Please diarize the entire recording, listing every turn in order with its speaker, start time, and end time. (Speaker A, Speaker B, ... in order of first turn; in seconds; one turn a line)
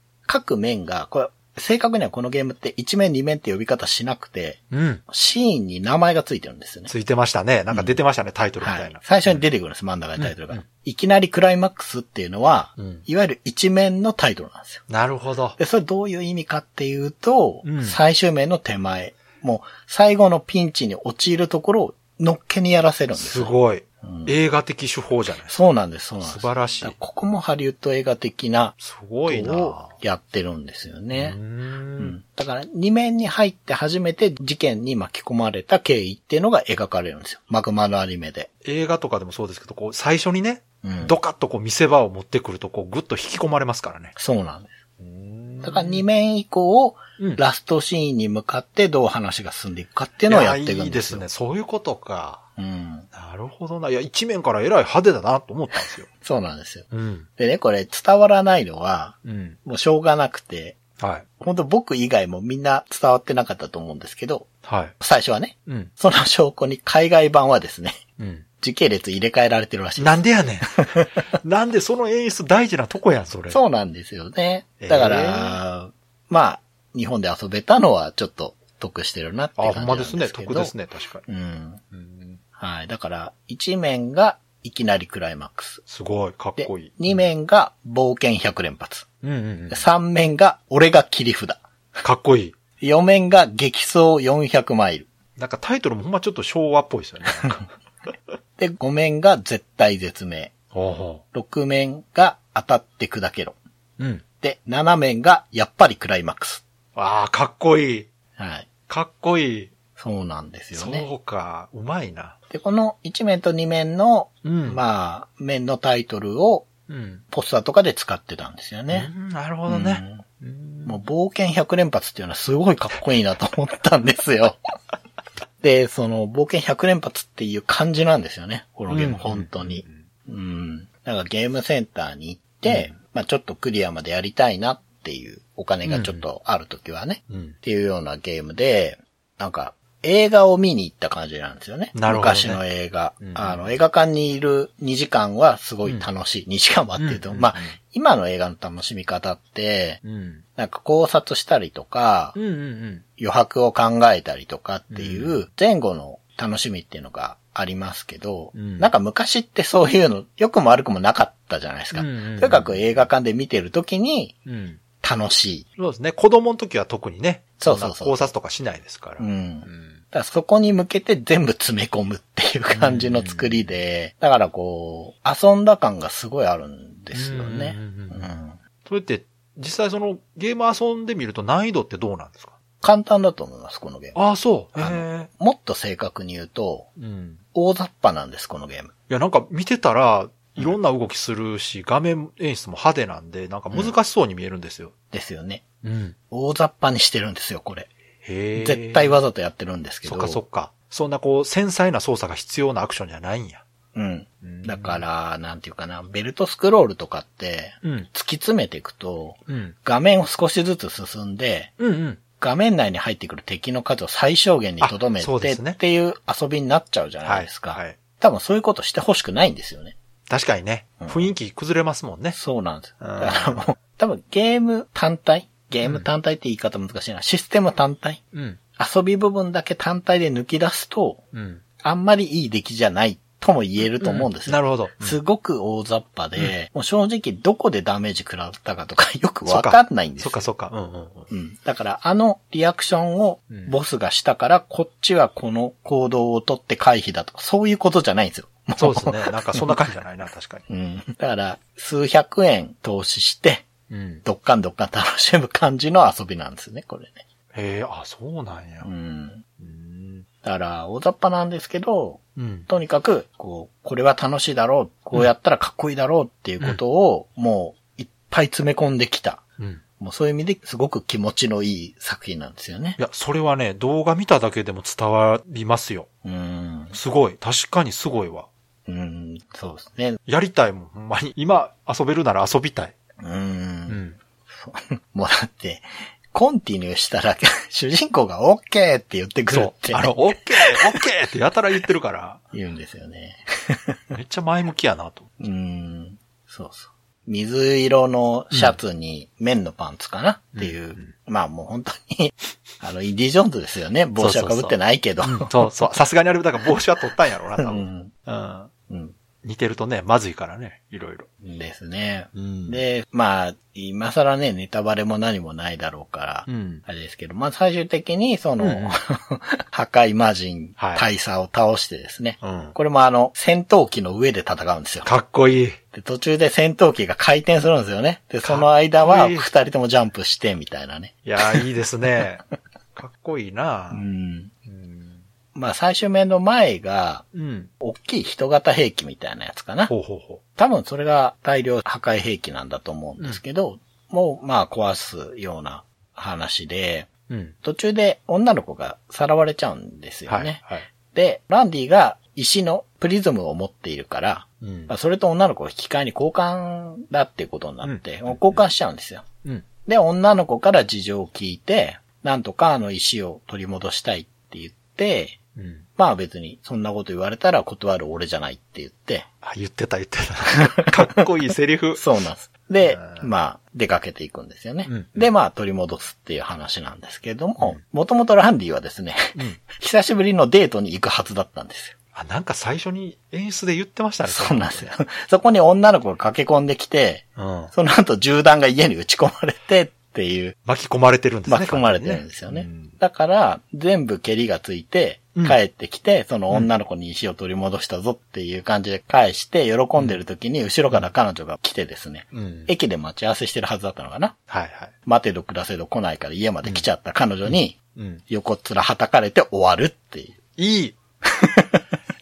Speaker A: 0.3-6.9
Speaker B: 4.7-5.0
Speaker B: 6.9-9.4
Speaker A: 7.7-8.0
Speaker A: 8.6-14.8
Speaker B: 10.2-10.6
Speaker B: 12.8-13.0
Speaker B: 14.9-15.6
Speaker A: 15.6-24.3
Speaker B: 17.6-18.0
Speaker B: 23.1-25.6
Speaker A: 25.4-28.7
Speaker B: 26.2-26.9
Speaker B: 28.8-29.9
Speaker A: 29.2-31.4
Speaker B: 31.1-32.1
Speaker A: 32.0-38.5
Speaker B: 38.6-44.1
Speaker A: 40.8-41.1
Speaker A: 44.1-44.7
Speaker B: 45.0-46.0
Speaker A: 45.6-51.3
Speaker B: 50.3-52.4
Speaker A: 52.6-53.1
Speaker B: 53.1-56.1
Speaker A: 56.1-60.8
Speaker B: 56.9-57.3
Speaker B: 59.2-59.6
Speaker B: 61.0-61.2
Speaker A: 61.4-64.5
Speaker B: 64.6-65.0
Speaker A: 65.0-68.0
Speaker B: 65.7-65.9
Speaker B: 68.2-68.5
Speaker A: 68.6-71.2
Speaker B: 70.0-73.6
Speaker A: 73.5-80.7
Speaker B: 74.8-75.6
Speaker B: 79.6-81.2
Speaker A: 81.2-81.8
Speaker B: 81.9-82.4
Speaker A: 82.6-85.8
Speaker B: 85.9-87.3
Speaker A: 86.6-89.1
Speaker B: 89.2-89.8
Speaker A: 89.7-91.6
Speaker B: 92.0-92.5
Speaker A: 92.8-95.1
Speaker B: 95.4-97.6
Speaker A: 98.6-100.5
Speaker B: 100.7-101.2
Speaker A: 101.3-103.5
Speaker B: 104.0-104.2
Speaker A: 104.4-106.6
Speaker B: 106.9-108.1
Speaker A: 108.4-108.7
Speaker B: 108.9-109.7
Speaker A: 110.0-111.1
Speaker B: 110.7-112.3
Speaker A: 112.5-116.7
Speaker B: 114.4-114.8
Speaker B: 116.9-117.2
Speaker A: 117.3-119.1
Speaker B: 118.9-121.0
Speaker A: 119.7-120.2
Speaker A: 120.8-124.6
Speaker A: 125.6-150.0
Speaker B: 128.9-130.0
Speaker B: 132.7-132.9
Speaker B: 135.8-136.2
Speaker B: 137.3-137.6
Speaker B: 141.9-142.6
Speaker B: 143.2-143.7
Speaker B: 147.0-147.7
Speaker B: 150.0-150.4
Speaker A: 150.6-152.3
Speaker B: 152.3-153.0
Speaker A: 153.2-164.3
Speaker B: 154.9-155.4
Speaker B: 158.5-158.9
Speaker B: 161.9-163.1
Speaker B: 164.4-164.8
Speaker A: 165.0-165.7
Speaker B: 165.8-170.0
Speaker A: 167.6-168.3
Speaker A: 169.2-178.6
Speaker B: 172.7-173.7
Speaker B: 177.1-178.3
Speaker B: 178.8-182.6
Speaker A: 182.8-184.2
Speaker B: 184.1-185.3
Speaker A: 184.8-186.9
Speaker B: 187.0-187.4
Speaker A: 187.5-188.9
Speaker B: 189.1-194.9
Speaker A: 195.1-195.6
Speaker B: 195.8-196.2
Speaker A: 196.3-197.9
Speaker B: 198.2-199.2
Speaker A: 198.5-200.4
Speaker B: 200.0-203.6
Speaker A: 203.9-211.7
Speaker B: 204.4-205.0
Speaker B: 207.8-208.1
Speaker B: 209.5-209.8
Speaker B: 211.8-212.2
Speaker A: 212.4-219.9
Speaker B: 214.8-215.8
Speaker B: 217.2-218.0
Speaker B: 220.3-222.4
Speaker A: 221.0-221.3
Speaker A: 222.3-228.2
Speaker B: 223.0-223.6
Speaker B: 228.3-228.6
Speaker A: 228.8-231.2
Speaker B: 231.3-231.6
Speaker A: 231.8-240.4
Speaker B: 234.0-235.2
Speaker B: 239.4-241.3
Speaker A: 241.3-249.8
Speaker B: 243.5-243.7
Speaker B: 248.8-250.7
Speaker A: 250.7-253.7
Speaker B: 253.9-254.2
Speaker A: 254.2-257.2
Speaker B: 257.5-258.9
Speaker A: 258.8-259.4
Speaker B: 259.6-260.2
Speaker A: 260.4-269.4
Speaker B: 262.4-262.7
Speaker A: 270.0-273.0
Speaker B: 273.0-276.1
Speaker A: 276.2-277.0
Speaker B: 276.9-278.5
Speaker A: 278.9-280.2
Speaker B: 280.2-282.9
Speaker A: 283.2-291.0
Speaker B: 283.9-284.2
Speaker B: 289.5-292.4
Speaker A: 292.5-294.0
Speaker B: 294.1-295.3
Speaker A: 295.4-305.8
Speaker B: 298.5-298.8
Speaker B: 300.6-301.1
Speaker B: 304.2-308.7
Speaker A: 307.6-308.1
Speaker A: 308.9-309.1
Speaker B: 309.4-311.3
Speaker A: 311.4-325.1
Speaker B: 312.3-312.8
Speaker B: 316.5-316.8
Speaker B: 318.6-319.0
Speaker B: 320.8-321.1
Speaker B: 322.4-322.8
Speaker B: 325.0-325.8
Speaker A: 325.9-331.6
Speaker B: 328.4-329.5
Speaker B: 331.2-332.4
Speaker B: 332.9-334.0
Speaker A: 333.9-334.5
Speaker B: 334.6-335.2
Speaker A: 335.5-337.2
Speaker B: 337.3-337.7
Speaker A: 337.8-339.9
Speaker B: 339.9-340.4
Speaker A: 340.6-347.1
Speaker B: 347.3-347.6
Speaker A: 347.6-359.2
Speaker B: 350.3-350.9
Speaker B: 354.6-354.9
Speaker B: 357.8-358.6
Speaker A: 359.8-365.4
Speaker B: 365.6-365.9
Speaker A: 366.0-369.3
Speaker B: 369.4-372.0
Speaker A: 370.7-371.2
Speaker A: 371.9-381.9
Speaker B: 372.8-373.3
Speaker B: 374.9-375.3
Speaker B: 382.1-384.9
Speaker A: 384.2-390.6
Speaker B: 387.4-387.7
Speaker B: 390.6-393.0
Speaker A: 391.5-404.4
Speaker B: 402.3-402.7
Speaker B: 404.5-404.9
Speaker A: 405.1-407.8
Speaker B: 407.4-408.2
Speaker A: 408.3-410.4
Speaker B: 410.6-411.0
Speaker A: 411.3-411.8